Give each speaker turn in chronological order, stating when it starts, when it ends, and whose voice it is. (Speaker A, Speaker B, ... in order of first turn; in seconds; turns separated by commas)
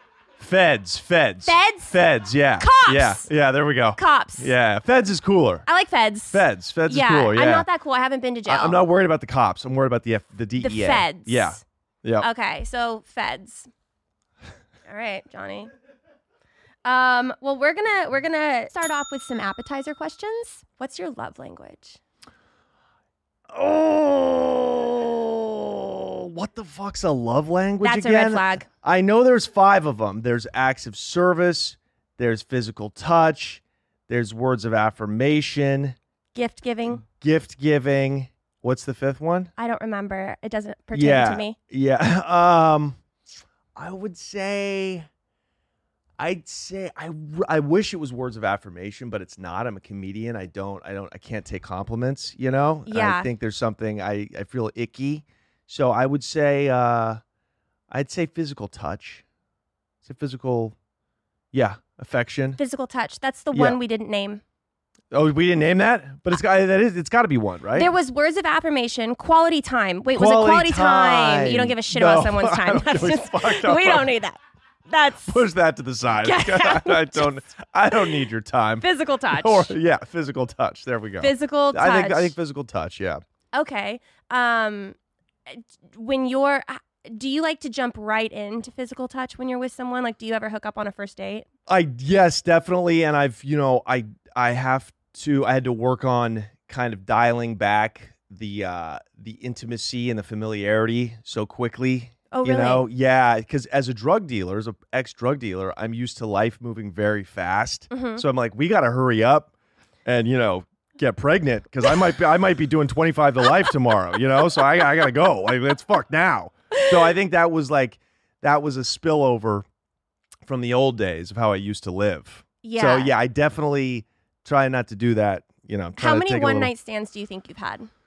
Speaker A: 0.4-5.7, Speaker B: 1.4-1.9, Speaker B: 2.6-3.3, Speaker B: 4.0-4.5, Speaker B: 5.7-8.8, Speaker A: 6.3-7.7, Speaker A: 8.5-12.3, Speaker B: 10.6-11.6, Speaker B: 12.2-13.7, Speaker B: 14.9-15.7, Speaker B: 16.8-22.0, Speaker A: 23.5-36.0, Speaker B: 27.8-28.7, Speaker B: 36.3-37.0, Speaker A: 37.0-39.5, Speaker B: 39.6-41.6, Speaker A: 40.9-43.0, Speaker A: 43.8-45.1, Speaker A: 46.2-57.2, Speaker B: 52.9-53.3, Speaker A: 57.9-59.2, Speaker A: 60.0-60.7, Speaker A: 61.5-62.6, Speaker B: 62.6-64.4, Speaker A: 65.1-67.9, Speaker B: 67.7-75.4, Speaker A: 70.1-74.1, Speaker A: 75.3-83.2, Speaker B: 76.2-77.3, Speaker B: 78.8-79.7, Speaker B: 81.2-82.3, Speaker B: 83.5-85.0, Speaker B: 85.5-91.5, Speaker A: 91.7-109.5, Speaker B: 102.3-102.8, Speaker B: 107.9-108.2, Speaker A: 110.0-119.6, Speaker A: 120.5-126.7, Speaker B: 122.6-123.1, Speaker B: 126.0-127.9